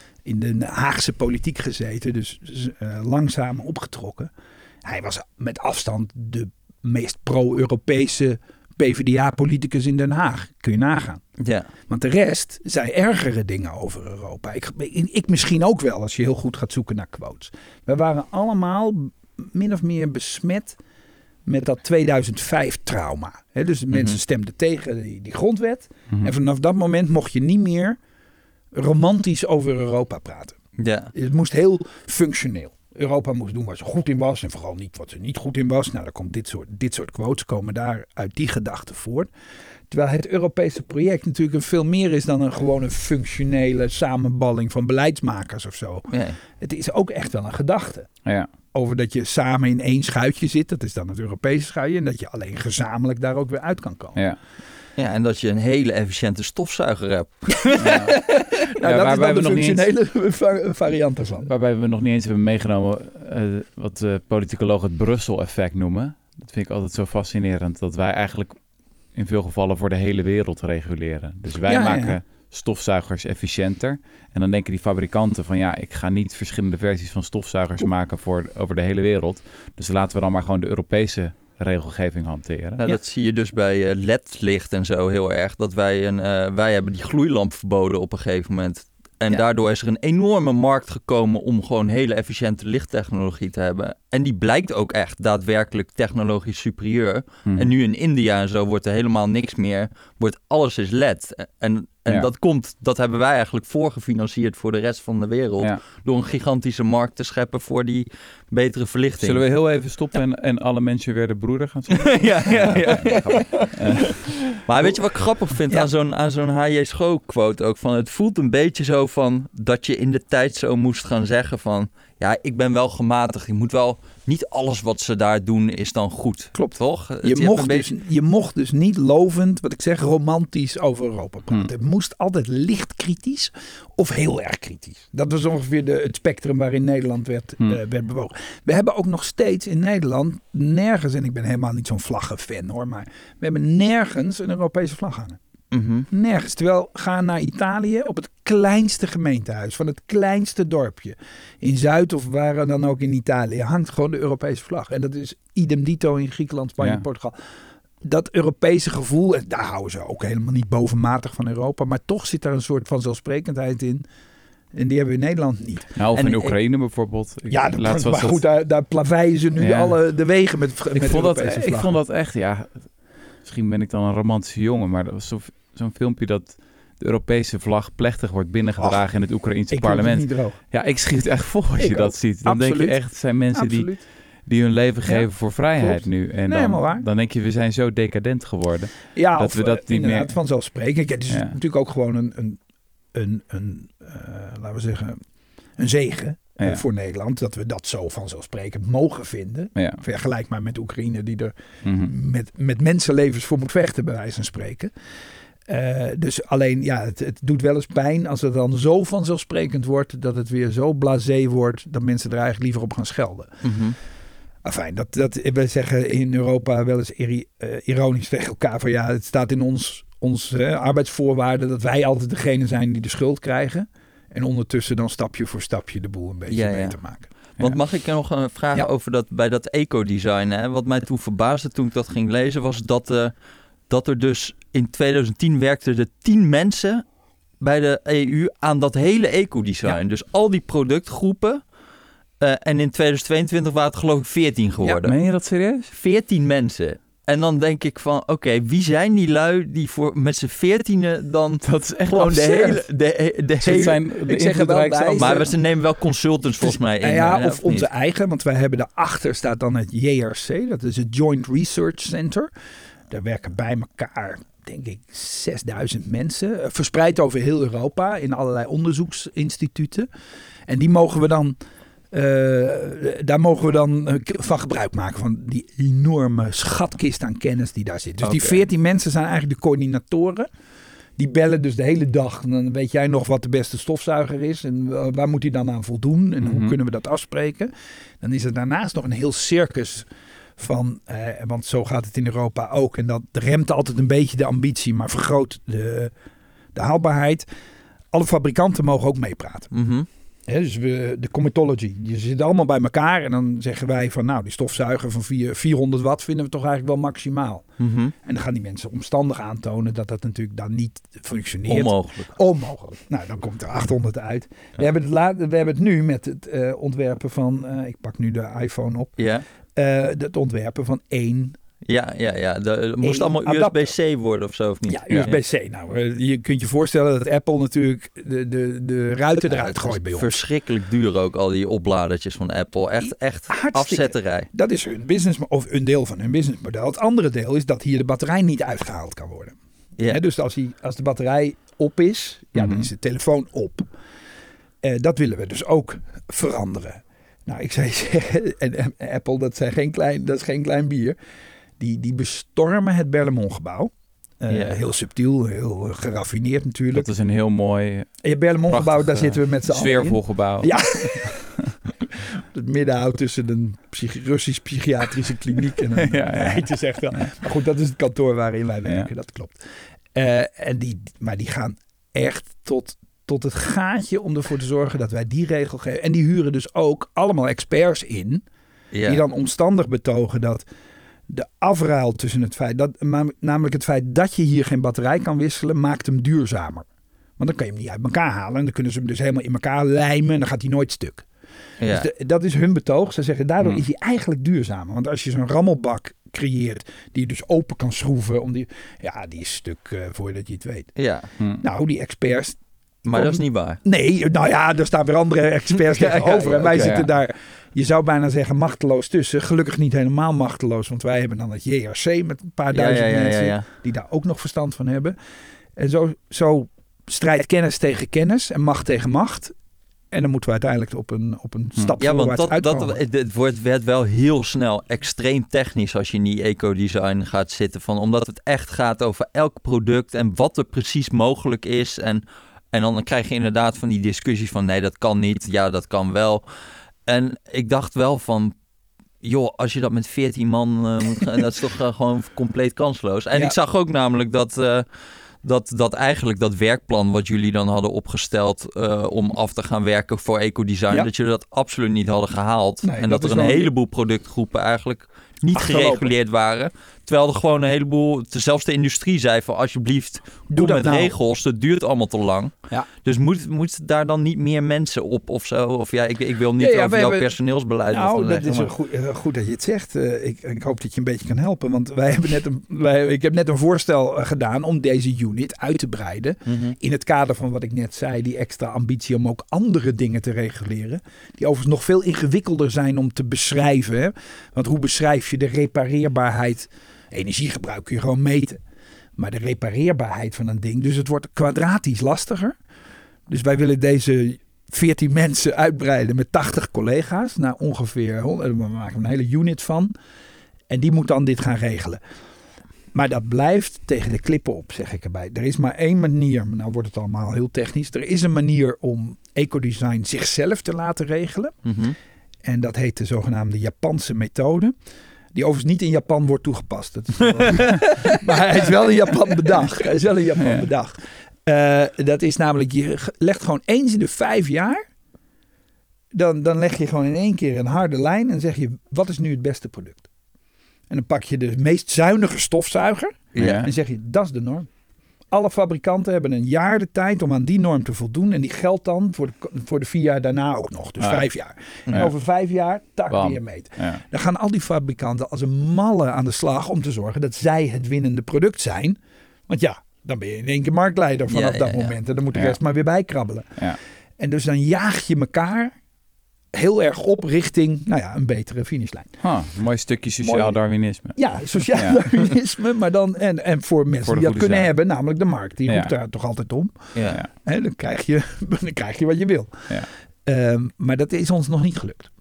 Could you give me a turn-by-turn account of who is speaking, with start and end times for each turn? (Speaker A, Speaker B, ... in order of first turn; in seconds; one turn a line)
Speaker A: 0.2-4.3
Speaker A: 4.8-11.2
Speaker B: 11.4-11.7
Speaker A: 11.9-20.8
Speaker A: 21.4-28.0
Speaker B: 23.9-24.2
Speaker A: 28.7-30.6
Speaker B: 30.8-31.1
Speaker A: 31.1-39.3
Speaker A: 39.9-48.1
Speaker B: 46.1-46.4
Speaker C: 48.2-48.5
Speaker A: 48.7-54.2
Speaker B: 55.0-58.0
Speaker A: 57.5-61.5
Speaker C: 57.8-58.2
Speaker C: 58.8-59.9
Speaker C: 61.5-68.5
Speaker C: 69.1-82.8
Speaker A: 71.7-72.2
Speaker B: 82.8-109.4
Speaker C: 109.2-114.4
Speaker B: 112.0-113.7
Speaker B: 114.6-127.9
Speaker A: 126.5-145.4
Speaker B: 145.7-146.1
Speaker A: 146.1-157.3
Speaker A: 158.0-164.0
Speaker A: 164.7-166.5
Speaker C: 166.0-168.4
Speaker A: 167.5-171.9
Speaker C: 169.6-170.0
Speaker C: 170.9-172.9
Speaker C: 173.4-190.3
Speaker A: 178.8-179.0
Speaker A: 179.7-180.6
Speaker A: 181.8-183.0
Speaker A: 183.5-184.0
Speaker A: 185.1-187.0
Speaker A: 189.1-192.6
Speaker A: 193.1-195.2
Speaker A: 195.8-204.9
Speaker C: 199.8-200.0
Speaker C: 201.8-202.1
Speaker A: 205.7-213.6
Speaker B: 213.6-214.0
Speaker A: 214.6-227.3
Speaker B: 226.5-227.0
Speaker B: 227.6-233.3
Speaker B: 233.9-237.1
Speaker B: 237.6-241.6
Speaker B: 242.4-245.1
Speaker C: 244.8-245.9
Speaker B: 245.9-253.9
Speaker C: 251.6-252.8
Speaker C: 253.6-255.5
Speaker A: 253.6-255.5
Speaker B: 255.2-257.9
Speaker A: 256.6-262.5
Speaker A: 263.1-270.1
Speaker A: 270.7-271.6
Speaker A: 272.1-280.5
Speaker B: 278.2-278.6
Speaker A: 281.2-290.1
Speaker C: 286.4-286.8
Speaker A: 290.6-296.1
Speaker A: 296.7-297.5
Speaker A: 298.1-299.7
Speaker B: 299.7-300.1
Speaker A: 300.5-319.2
Speaker B: 307.8-308.1
Speaker B: 311.6-312.3
Speaker B: 319.2-319.4
Speaker A: 319.7-321.6
Speaker B: 321.9-325.4
Speaker A: 323.0-323.9
Speaker A: 324.9-330.4
Speaker B: 329.5-334.5
Speaker A: 333.5-339.6
Speaker A: 340.1-343.9
Speaker C: 342.5-342.9
Speaker A: 344.8-351.2
Speaker A: 351.8-357.1
Speaker B: 354.5-354.7
Speaker C: 356.9-358.1
Speaker A: 358.2-361.6
Speaker C: 358.7-361.5
Speaker A: 362.1-369.6
Speaker C: 366.0-366.7
Speaker A: 370.1-378.4
Speaker B: 378.9-379.2
Speaker A: 379.0-380.6
Speaker A: 381.3-386.8
Speaker A: 387.4-391.2
Speaker B: 391.8-392.1
Speaker A: 391.9-400.9
Speaker B: 400.9-401.3
Speaker C: 401.4-401.6
Speaker A: 401.6-415.1
Speaker B: 403.1-403.8
Speaker B: 405.8-407.0
Speaker C: 406.7-407.1
Speaker B: 412.7-413.6
Speaker A: 415.8-419.5
Speaker A: 420.1-423.0
Speaker B: 422.0-436.4
Speaker B: 437.1-438.6
Speaker B: 439.2-444.9
Speaker B: 445.4-468.7
Speaker A: 452.8-453.7
Speaker A: 455.5-456.1
Speaker A: 460.5-461.1
Speaker A: 466.6-467.3
Speaker A: 467.9-488.6
Speaker B: 476.5-476.7
Speaker A: 489.2-492.6
Speaker A: 493.3-499.9
Speaker A: 500.7-502.0
Speaker A: 502.9-511.6
Speaker B: 511.6-511.9
Speaker A: 512.4-514.7
Speaker A: 515.3-524.8
Speaker C: 520.4-520.7
Speaker A: 526.1-530.0
Speaker A: 530.9-534.7
Speaker B: 533.3-533.6
Speaker C: 533.4-533.7
Speaker A: 535.3-553.6
Speaker C: 541.0-541.3
Speaker C: 543.1-544.0
Speaker B: 551.3-551.9
Speaker A: 554.2-555.8
Speaker A: 556.5-559.1
Speaker C: 559.2-562.3
Speaker A: 560.2-560.6
Speaker A: 561.1-572.1
Speaker C: 564.0-564.7